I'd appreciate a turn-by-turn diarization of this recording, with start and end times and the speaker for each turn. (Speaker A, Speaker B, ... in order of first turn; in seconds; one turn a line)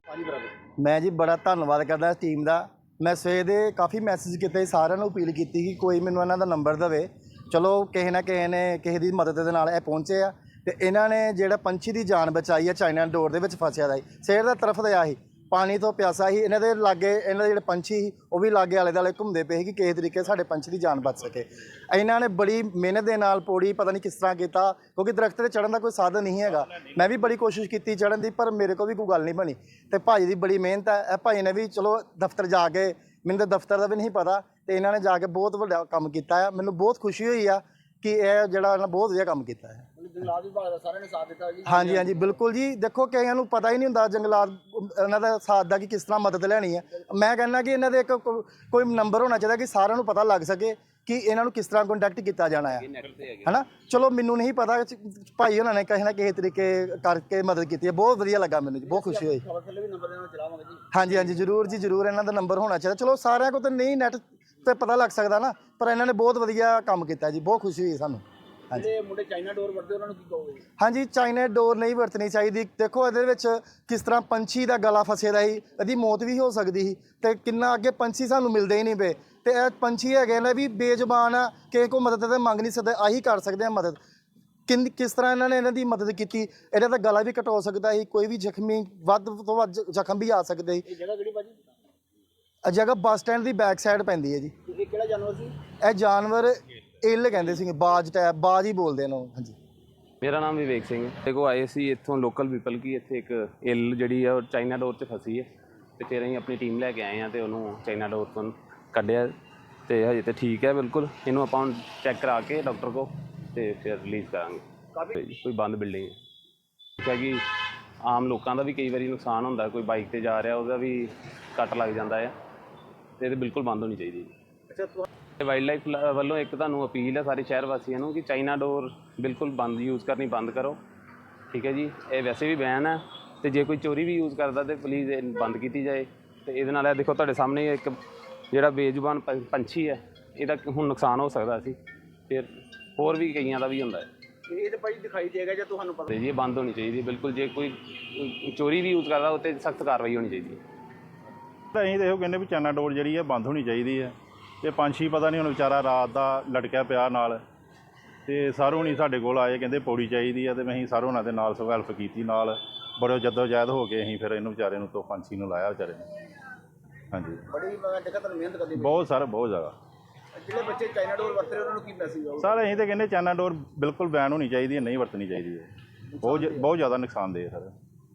Speaker A: 0.1-0.5
Speaker B: 0.8-39.9
Speaker A: 40.0-42.2
Speaker B: 41.7-52.9
Speaker C: 52.8-53.5
Speaker B: 53.5-59.4
Speaker A: 58.9-60.9
Speaker B: 60.9-68.9
Speaker A: 68.7-70.6
Speaker B: 70.8-84.0
Speaker B: 84.7-90.9
Speaker A: 90.9-91.6
Speaker B: 92.7-94.5
Speaker A: 94.7-95.5
Speaker B: 95.8-99.6
Speaker C: 100.2-109.3
Speaker C: 109.9-116.2
Speaker C: 117.0-117.5
Speaker C: 118.0-122.3
Speaker C: 123.2-124.3
Speaker A: 124.7-125.0
Speaker C: 125.4-130.8
Speaker C: 131.5-138.0
Speaker C: 138.5-141.8
Speaker C: 142.3-144.1
Speaker A: 144.5-146.1
Speaker C: 146.1-150.6
Speaker D: 151.8-157.4
Speaker D: 158.3-166.1
Speaker D: 167.1-167.4
Speaker A: 167.5-169.1
Speaker D: 168.8-169.7
Speaker A: 170.4-172.8
Speaker D: 172.4-175.7
Speaker D: 176.2-177.7
Speaker A: 176.2-176.6